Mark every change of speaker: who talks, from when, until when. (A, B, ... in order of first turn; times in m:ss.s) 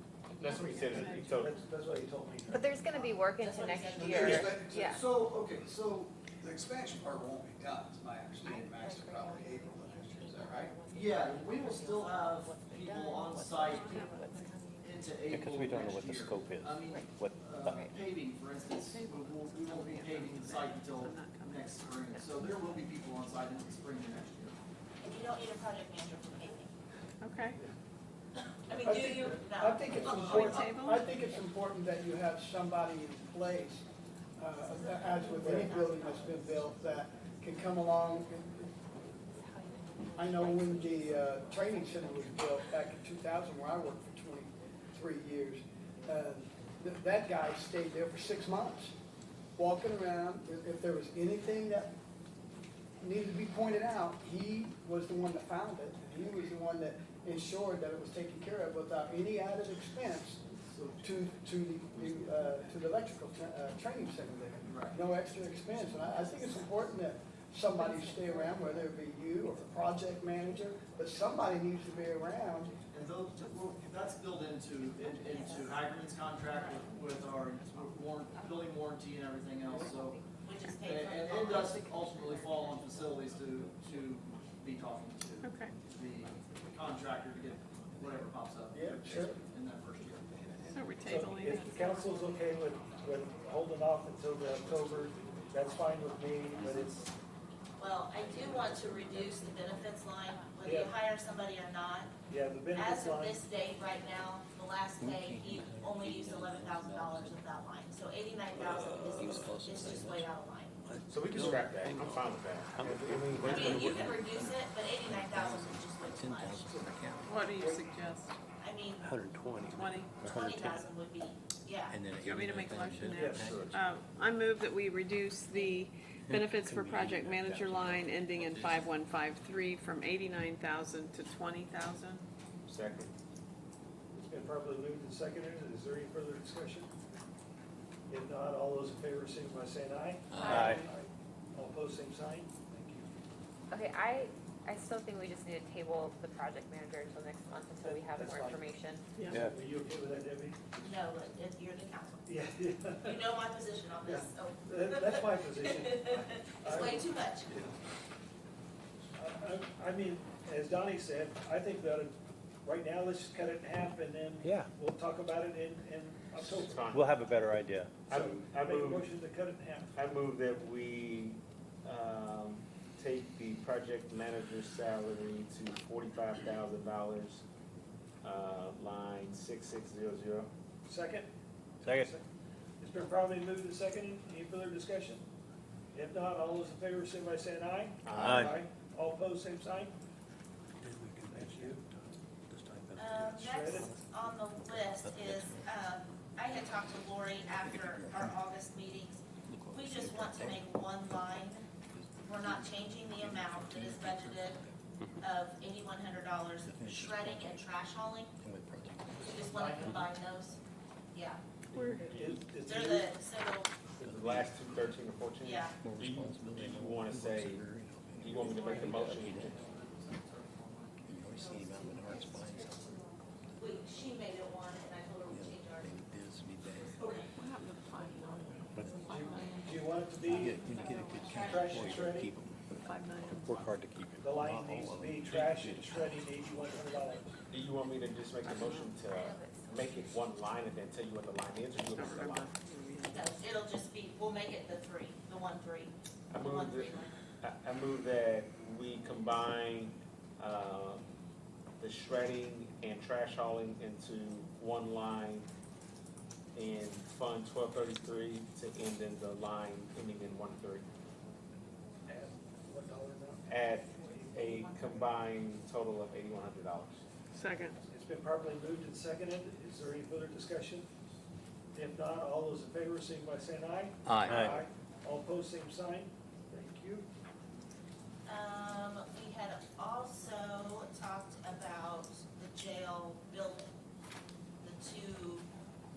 0:00.4-0:01.5 A
0:00.4-0:00.9 B
0:00.9-0:02.9 C
0:00.9-0:01.3 D
0:02.5-0:05.1 E
0:03.3-0:04.6 B
0:04.2-0:05.3 F
0:04.9-0:05.2 G
0:06.4-0:10.7 F
0:08.4-0:14.8 E
0:10.9-0:14.1 G
0:10.9-0:14.1 H
0:13.6-0:14.5 D
0:14.8-0:18.0 G
0:14.8-0:24.5 H
0:16.8-0:17.9 E
0:18.8-0:22.0 D
0:19.4-0:20.5 G
0:21.7-0:22.9 G
0:25.0-0:26.7 B
0:27.2-0:27.6 D
0:28.6-0:30.8 B
0:28.8-0:30.3 C
0:29.8-0:33.8 I
0:30.0-0:31.1 D
0:34.4-0:38.7 I
0:34.6-0:36.4 B
0:35.4-0:35.7 C
0:39.6-0:40.5 E
0:40.2-0:48.9 I
0:49.6-0:52.0 I
0:53.0-1:00.4 I
1:00.6-1:01.0 H
1:01.0-1:12.7 I
1:04.7-1:05.0 H
1:06.2-1:06.7 E
1:07.8-1:08.9 E
1:12.9-1:20.2 H
1:13.0-1:17.6 G
1:15.0-1:15.8 E
1:15.2-1:15.7 B
1:16.5-1:16.8 B
1:18.1-1:19.0 G
1:19.7-1:20.2 E
1:19.7-1:20.2 G
1:20.4-1:21.8 B
1:20.8-1:30.7 H
1:21.9-1:24.2 G
1:21.9-1:22.7 E
1:25.4-1:25.8 D
1:26.8-1:29.4 G
1:28.7-1:29.4 I
1:30.7-1:32.2 D
1:31.0-1:37.1 C
1:37.8-1:42.1 B
1:40.6-1:40.9 C
1:42.2-1:43.4 C
1:42.7-1:50.8 B
1:45.0-1:47.4 H
1:49.1-1:50.2 H
1:49.2-1:49.9 G
1:51.1-1:54.1 A
1:51.3-1:52.2 H
1:52.7-1:57.4 H
1:52.9-1:54.1 G
1:53.4-1:56.7 B
1:57.2-1:58.3 D
1:57.5-1:57.9 C
1:58.6-1:59.1 B
1:59.0-2:00.8 H
1:59.7-2:00.3 D
2:00.2-2:02.0 B
2:01.9-2:03.6 H
2:02.2-2:12.2 D
2:03.1-2:03.5 C
2:03.4-2:03.8 A
2:06.3-2:08.1 H
2:06.8-2:07.2 G
2:08.5-2:08.8 G
2:12.6-2:13.1 A
2:14.1-2:16.9 C
2:18.1-2:23.1 C
2:20.4-2:20.7 E
2:20.4-2:20.8 G
2:20.4-2:20.8 H
2:23.7-2:29.0 E
2:27.8-2:28.7 C
2:29.2-2:29.4 D
2:29.3-2:30.6 C
2:30.8-2:32.3 B
2:32.3-2:33.2 C
2:33.0-2:37.6 B
2:34.0-2:37.7 C
2:39.2-2:47.0 C
2:46.4-2:47.1 A
2:46.9-2:47.9 G
2:48.0-2:49.9 C
2:48.1-2:49.1 A
2:49.9-2:57.4 A
2:58.2-3:00.5 A
3:00.8-3:01.3 C
3:01.8-3:02.2 C
3:02.8-3:05.2 C
3:05.9-3:09.9 C
3:08.0-3:08.4 A
3:08.2-3:08.5 G
3:11.3-3:11.8 C
3:12.5-3:13.4 H
3:12.8-3:13.2 G
3:13.0-3:21.7 B
3:13.4-3:13.9 C
3:14.6-3:15.6 H
3:17.6-3:18.3 H
3:19.5-3:20.6 H
3:22.0-3:24.7 H
3:22.2-3:24.6 B
3:25.2-3:28.3 B
3:26.6-3:27.6 H
3:28.4-3:30.1 H
3:29.2-3:30.6 B
3:31.1-3:31.4 B
3:31.7-3:32.1 D
3:31.7-3:32.4 A
3:32.0-3:33.1 C
3:32.6-3:33.7 B
3:34.0-3:37.6 A
3:34.2-3:34.4 H
3:35.4-3:35.7 B
3:35.8-3:43.0 H
3:38.2-3:39.6 A
3:38.4-3:39.4 B
3:41.2-3:45.9 B
3:45.3-3:47.2 H
3:46.7-3:47.3 B
3:47.4-3:51.6 D
3:48.0-3:48.4 B
3:49.0-3:50.6 C
3:50.3-3:52.7 H
3:50.6-3:51.1 G
3:51.0-3:52.1 B
3:51.4-3:52.3 C
3:52.8-3:53.6 D
3:53.4-3:55.9 G
3:53.5-3:56.2 H
3:54.2-3:57.4 C
3:57.5-4:02.5 A
3:58.4-3:58.9 D
3:59.1-3:59.8 E
4:01.9-4:03.3 D
4:03.1-4:07.1 B
4:06.3-4:06.9 A
4:07.4-4:11.0 A
4:11.8-4:15.5 A
4:16.5-4:20.8 A
4:22.0-4:23.4 C
4:23.5-4:27.0 A
4:24.0-4:24.4 C
4:27.3-4:27.8 D
4:27.8-4:30.9 C
4:31.7-4:37.1 C
4:34.1-4:34.6 G
4:34.3-4:34.5 H
4:38.3-4:43.7 B
4:44.6-4:45.5 B